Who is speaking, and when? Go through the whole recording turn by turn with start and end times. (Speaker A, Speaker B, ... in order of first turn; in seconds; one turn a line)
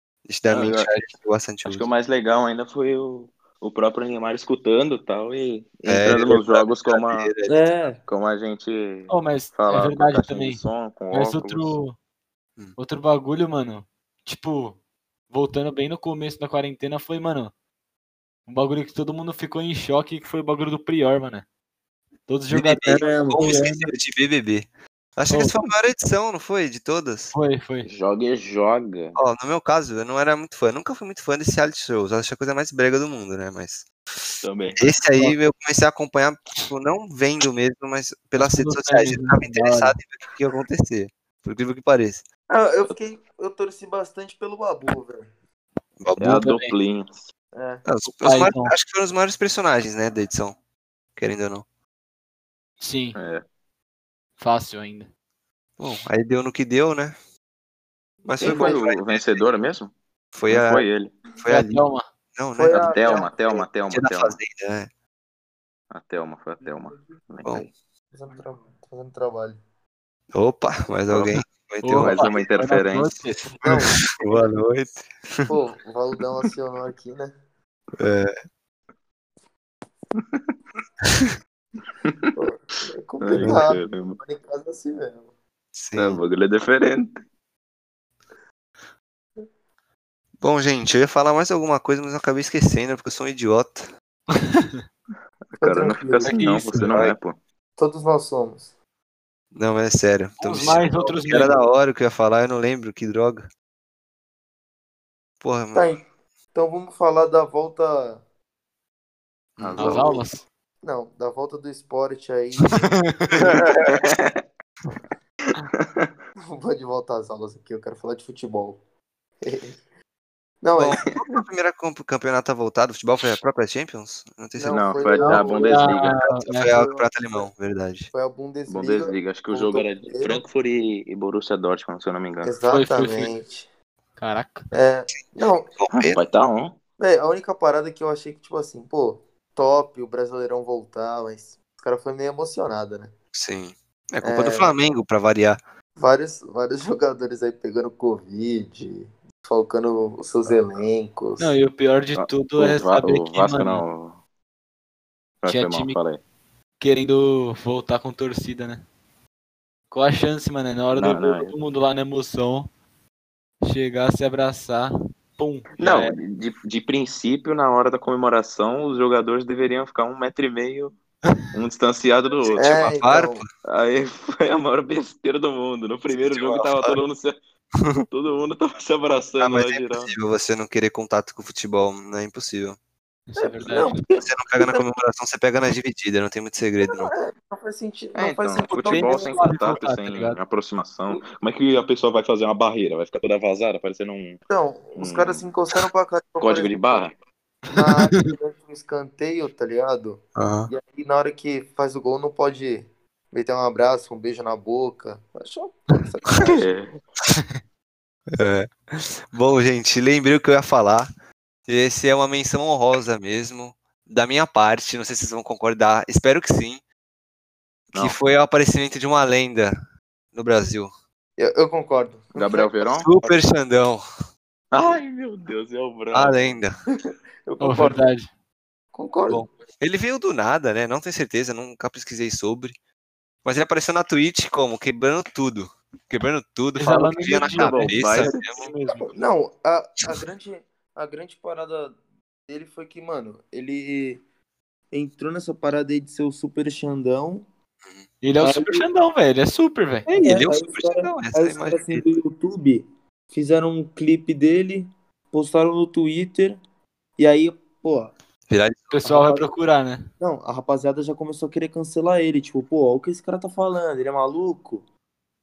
Speaker A: 0.3-1.9
Speaker B: 0.5-0.9
Speaker B: 1.6-7.3
Speaker A: 5.9-7.7
Speaker C: 7.4-8.0
Speaker B: 8.1-11.7
Speaker D: 9.1-11.9
Speaker D: 12.8-14.8
Speaker D: 15.3-17.5
Speaker D: 18.5-21.4
Speaker D: 22.3-23.2
Speaker A: 22.5-27.4
Speaker C: 22.9-23.9
Speaker D: 25.3-25.7
Speaker D: 27.3-27.9
Speaker B: 27.9-29.2
Speaker A: 29.1-42.2
Speaker B: 34.4-34.9
Speaker D: 38.4-40.0
Speaker C: 42.5-45.3
Speaker A: 46.0-46.5
Speaker B: 46.2-47.3
Speaker D: 46.3-46.7
Speaker C: 47.5-47.9
Speaker A: 47.9-50.6
Speaker D: 48.1-48.8
Speaker A: 51.2-51.6
Speaker D: 52.8-53.2
Speaker B: 53.1-53.4
Speaker D: 54.4-55.1
Speaker A: 55.8-57.1
Speaker A: 58.2-59.4
Speaker B: 58.4-59.9
Speaker C: 58.5-58.8
Speaker A: 60.3-60.9
Speaker B: 60.5-61.1
Speaker A: 61.4-61.9
Speaker D: 61.5-62.1
Speaker A: 62.4-63.0
Speaker C: 62.6-63.7
Speaker B: 62.7-64.4
Speaker A: 63.9-64.9
Speaker B: 65.9-67.7
Speaker C: 68.1-69.6
Speaker A: 70.3-72.3
Speaker B: 71.1-71.4
Speaker D: 71.8-73.9
Speaker B: 72.0-73.2
Speaker C: 73.6-74.4
Speaker A: 73.6-75.5
Speaker C: 75.5-77.3
Speaker A: 78.0-78.3
Speaker B: 80.2-80.5
Speaker C: 82.3-85.3
Speaker B: 83.2-84.2
Speaker A: 85.7-86.2
Speaker B: 85.9-87.2
Speaker A: 90.4-93.9
Speaker D: 94.5-94.8
Speaker B: 95.5-97.4
Speaker C: 95.6-96.4
Speaker D: 96.2-96.9
Speaker A: 96.9-97.2
Speaker C: 97.8-98.7
Speaker A: 99.5-103.5
Speaker D: 100.4-101.6
Speaker A: 105.4-105.9
Speaker C: 105.7-106.0
Speaker C: 106.5-108.2
Speaker A: 109.6-109.9
Speaker B: 109.6-110.2
Speaker D: 109.8-110.4
Speaker C: 109.8-110.1
Speaker C: 110.8-113.0
Speaker D: 112.7-113.6
Speaker A: 113.4-114.0
Speaker B: 113.8-114.3
Speaker B: 115.8-116.1
Speaker C: 116.4-118.8
Speaker C: 119.4-119.8
Speaker C: 120.6-121.1
Speaker A: 120.8-124.9
Speaker C: 124.6-126.0
Speaker B: 124.7-126.1
Speaker D: 125.2-126.7
Speaker A: 126.2-128.1
Speaker C: 126.6-127.5
Speaker C: 128.1-130.4
Speaker B: 128.7-132.5
Speaker C: 132.4-133.7
Speaker D: 132.7-133.3
Speaker D: 134.2-134.7
Speaker C: 134.7-135.7
Speaker A: 135.7-136.2
Speaker B: 135.9-136.8
Speaker C: 137.0-143.1
Speaker A: 143.3-145.6
Speaker C: 144.2-144.7
Speaker C: 146.0-151.5
Speaker D: 151.4-153.8
Speaker B: 152.2-154.2
Speaker B: 155.4-156.2
Speaker D: 155.5-156.0
Speaker D: 156.8-158.8
Speaker D: 159.9-162.7
Speaker B: 160.9-161.6
Speaker D: 163.6-166.2
Speaker B: 165.8-171.0
Speaker B: 171.5-172.9
Speaker C: 172.5-173.4
Speaker A: 172.6-173.5
Speaker B: 173.6-177.4
Speaker A: 176.1-177.0
Speaker B: 178.1-180.1
Speaker A: 179.4-182.8
Speaker D: 183.3-184.0
Speaker C: 183.4-184.8
Speaker A: 184.2-187.1
Speaker C: 186.8-189.6
Speaker B: 188.2-194.4
Speaker D: 188.9-190.4
Speaker C: 194.5-197.1
Speaker B: 195.0-195.4
Speaker B: 196.4-197.1
Speaker C: 197.7-206.7
Speaker D: 197.9-198.2
Speaker A: 200.4-200.7
Speaker B: 206.4-207.0
Speaker A: 208.4-211.1
Speaker A: 211.7-216.8
Speaker A: 217.9-219.8
Speaker A: 220.3-220.9
Speaker C: 221.4-223.5
Speaker B: 222.3-223.1
Speaker A: 223.0-224.0
Speaker B: 224.7-226.6
Speaker A: 226.1-226.8
Speaker C: 227.5-228.0
Speaker D: 227.6-228.3
Speaker C: 228.9-229.4
Speaker A: 229.8-232.8
Speaker A: 233.4-238.7
Speaker D: 236.8-239.2
Speaker B: 237.2-238.4
Speaker C: 239.1-244.2
Speaker C: 244.9-247.4
Speaker D: 248.2-250.1
Speaker C: 248.4-248.9
Speaker C: 250.1-256.6
Speaker A: 250.1-252.1
Speaker C: 257.2-258.1
Speaker A: 258.5-258.9
Speaker D: 258.9-260.1
Speaker C: 259.0-259.5
Speaker C: 260.2-264.9